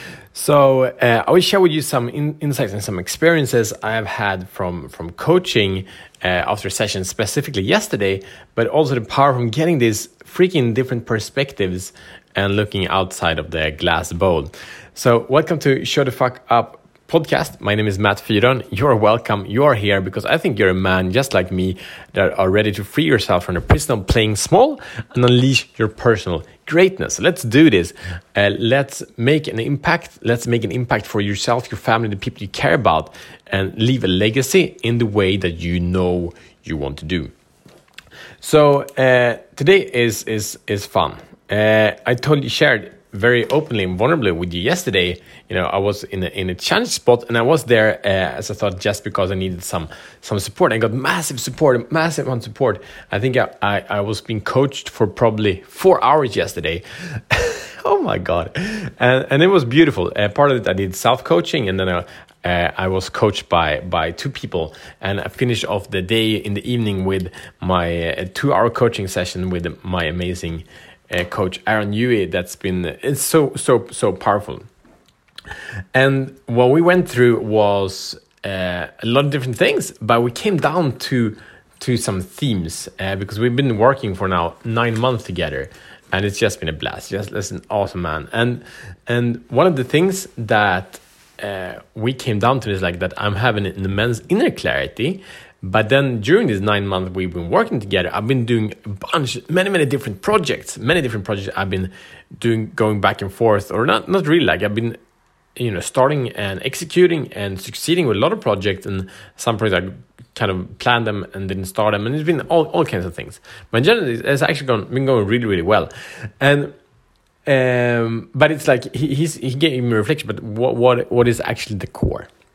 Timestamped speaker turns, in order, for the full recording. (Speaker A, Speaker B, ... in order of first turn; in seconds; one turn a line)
Speaker A: 0.3-37.3
Speaker A: 38.4-74.7
Speaker A: 75.9-105.0
Speaker A: 105.5-115.9
Speaker A: 116.4-116.7
Speaker A: 117.5-122.3